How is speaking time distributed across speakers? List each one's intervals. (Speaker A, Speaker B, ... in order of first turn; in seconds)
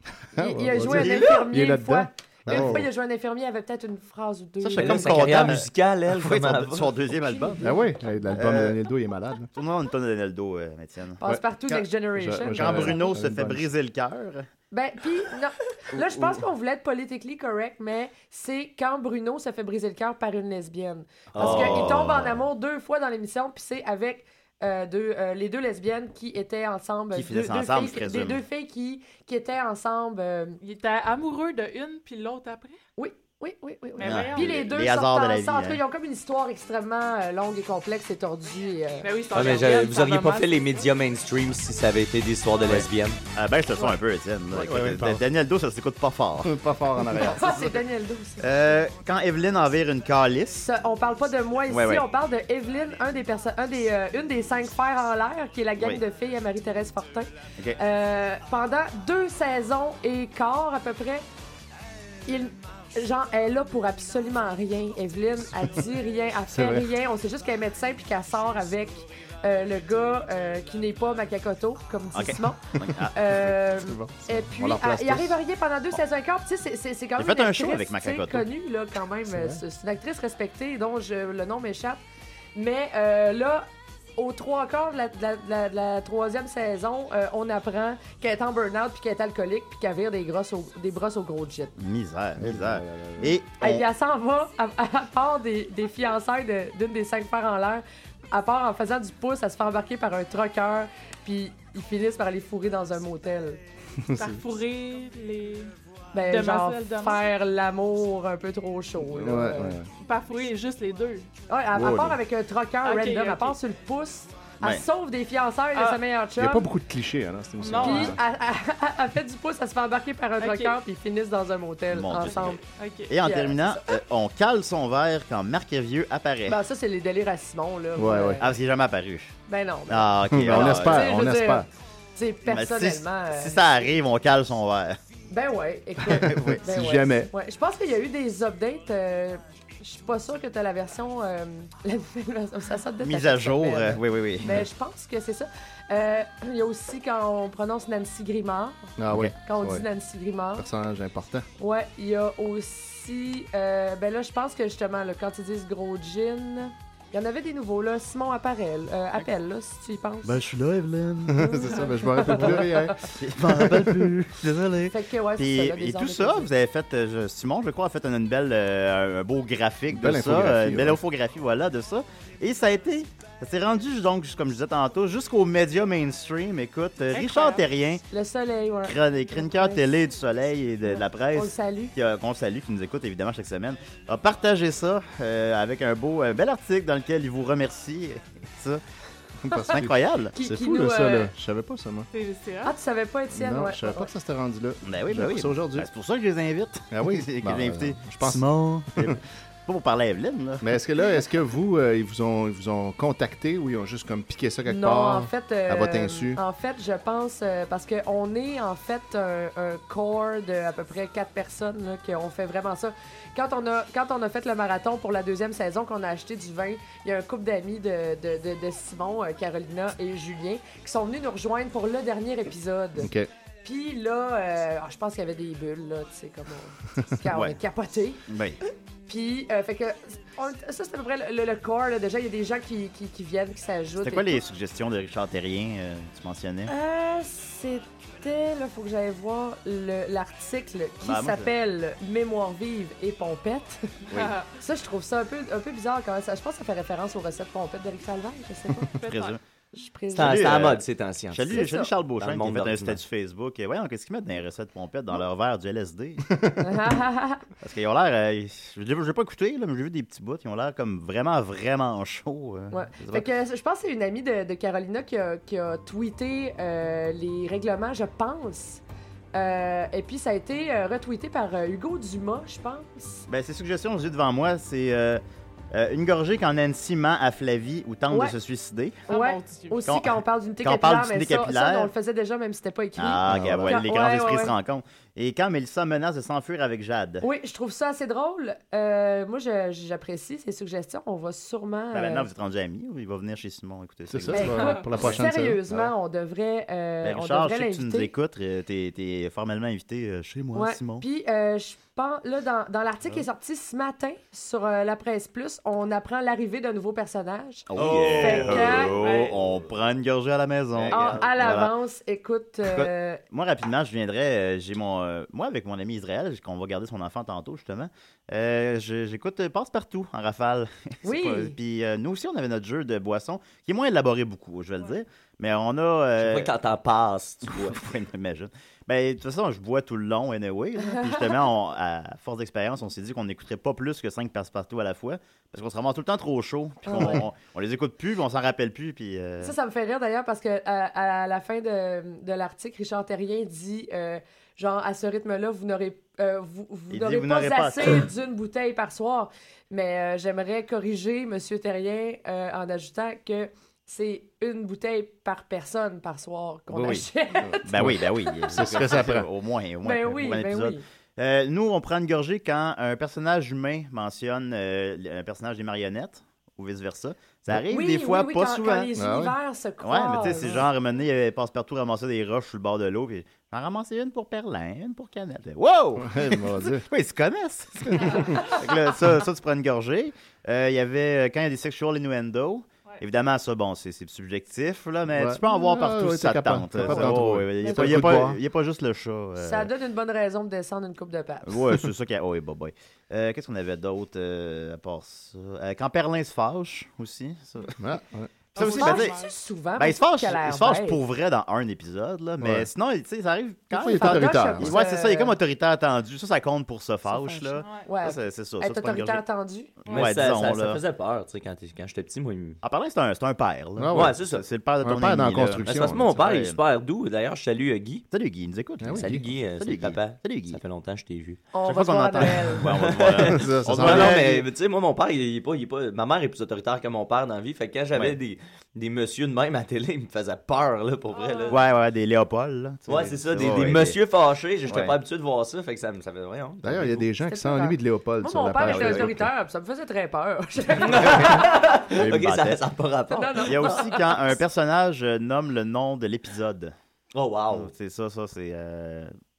Speaker A: 0.3-2.9, 7.6-9.5, 12.1-13.7, 44.5-45.2, 46.4-47.6, 66.5-66.9, 73.6-75.3, 79.2-79.6, 92.4-93.4, 104.0-104.4, 109.0-109.9, 111.7-112.2, 116.4-118.2, 128.0-128.4, 130.3-131.7, 136.2-137.3, 149.0-149.8, 150.6-151.5, 161.3-164.1, 169.9-171.0, 189.4-192.1, 193.3-195.9, 196.9-199.2, 200.6-206.4, 223.0-223.3, 283.2-283.8, 294.1-295.9, 357.4-359.3, 368.9-369.3, 376.0-376.9, 377.8-378.2, 385.1-388.4, 397.8-398.3, 402.4-402.7, 403.7-404.7, 413.8-414.2, 414.8-416.2, 418.8-419.2, 423.3-424.3, 436.6-439.3
Speaker B: 0.4-5.5, 7.3-7.9, 11.2-13.0, 14.7-30.6, 33.0-39.1, 47.2-48.5, 50.6-61.2, 62.3-82.0, 82.5-91.7, 93.6-103.6, 106.1-109.8, 111.5-116.7, 117.8-122.6, 123.2-123.8, 126.5-128.5, 129.5-133.6, 135.3-148.9, 149.4-150.7, 151.6-160.3, 161.4-162.9, 164.9-166.5, 178.1-179.8, 181.3-181.9, 190.3-191.3, 192.6-194.1, 204.7-223.1, 223.6-228.2, 229.1-234.4, 236.7-248.9, 249.7-250.6, 251.5-251.9, 256.6-257.4, 262.7-268.8, 269.3-273.3, 278.1-278.3, 279.1-284.5, 287.2-292.3, 294.3-298.1, 300.5-309.0, 310.9-313.2, 321.0-321.6, 330.9-331.2, 336.9-337.2, 339.4-358.7, 359.8-360.8, 367.7-370.6, 387.6-388.3, 389.4-391.6, 398.6-401.0, 403.9-405.4, 407.1-409.7, 421.5-422.7, 437.2-441.4, 443.1-443.9
Speaker C: 0.7-1.5, 2.5-2.8, 4.6-7.7, 8.3-8.8, 9.5-11.8, 12.5-14.5, 15.9-16.4, 21.3-22.5, 27.1-28.4, 34.0-35.8, 42.7-46.5, 47.2-47.7, 48.4-50.7, 51.7-52.0, 72.1-73.4, 77.2-78.5, 91.8-93.8, 121.9-126.6, 128.4-129.3, 129.9-131.1, 132.4-135.0, 136.1-136.6, 143.0-144.7, 160.2-161.6, 163.1-178.0, 178.8-188.8, 189.7-190.3, 194.8-200.7, 227.3-227.6, 228.3-228.6, 234.0-236.7, 241.0-241.5, 249.0-249.4, 250.1-256.3, 257.6-263.3, 273.3-275.2, 275.7-279.0, 279.9-281.9, 283.0-287.2, 291.9-295.1, 297.0-301.0, 307.7-311.7, 312.6-326.5, 327.6-339.5, 346.9-348.1, 356.7-357.1, 357.6-368.9, 369.8-389.7, 391.4-397.8, 398.5-399.2, 399.8-409.2, 409.8-410.8, 412.6-416.6, 418.1-420.6, 421.6-424.4, 431.5-434.0, 434.7-434.9, 438.6-439.1, 441.0-442.6, 443.4-446.7, 447.5-449.1
Speaker D: 4.8-7.0, 21.3-22.0, 39.3-43.2, 250.1-253.0, 307.7-309.2, 310.7-311.3, 326.2-327.8, 409.9-412.6, 413.9-414.4, 415.6-418.1, 418.9-421.4, 422.7-431.6, 432.9-437.0, 440.8-443.9, 447.1-447.7
Speaker E: 30.6-32.8, 34.0-34.6, 39.0-40.7, 104.1-105.7, 106.3-107.2, 110.0-111.3, 112.8-113.6, 115.7-116.0, 117.6-118.2, 120.4-120.8, 122.7-123.1, 177.1-177.7, 192.1-192.7, 244.1-244.4, 249.0-249.4, 279.1-279.8, 294.6-294.8, 309.0-309.4, 398.6-399.3, 407.6-407.9